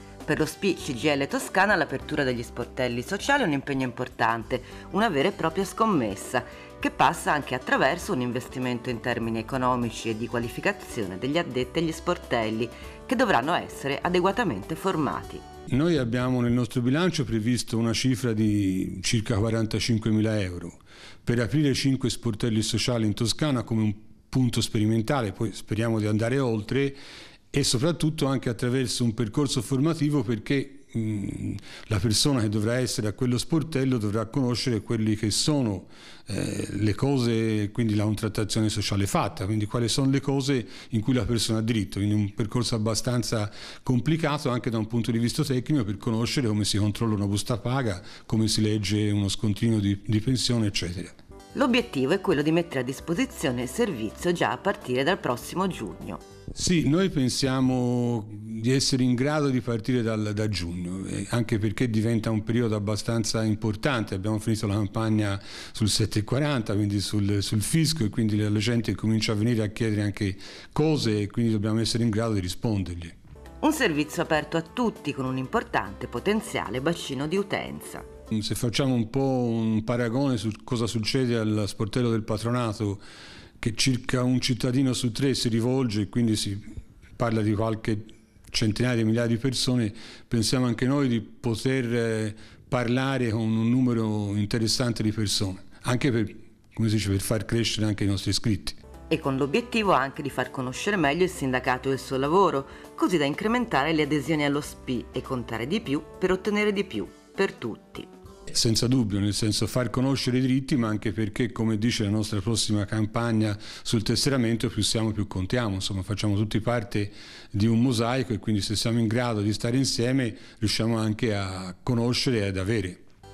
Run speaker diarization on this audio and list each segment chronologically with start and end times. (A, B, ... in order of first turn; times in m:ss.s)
0:00.2-0:15.4 A
0:15.7-0:27.0 B
0:27.5-0:51.1 B
0:51.5-0:56.2 A
0:56.5-1:13.1 B
1:13.6-1:18.0 A
1:18.3-1:23.0 B
1:23.6-1:26.6 B
1:27.2-1:38.8 B
1:39.1-1:48.1 A
1:48.5-2:03.0 B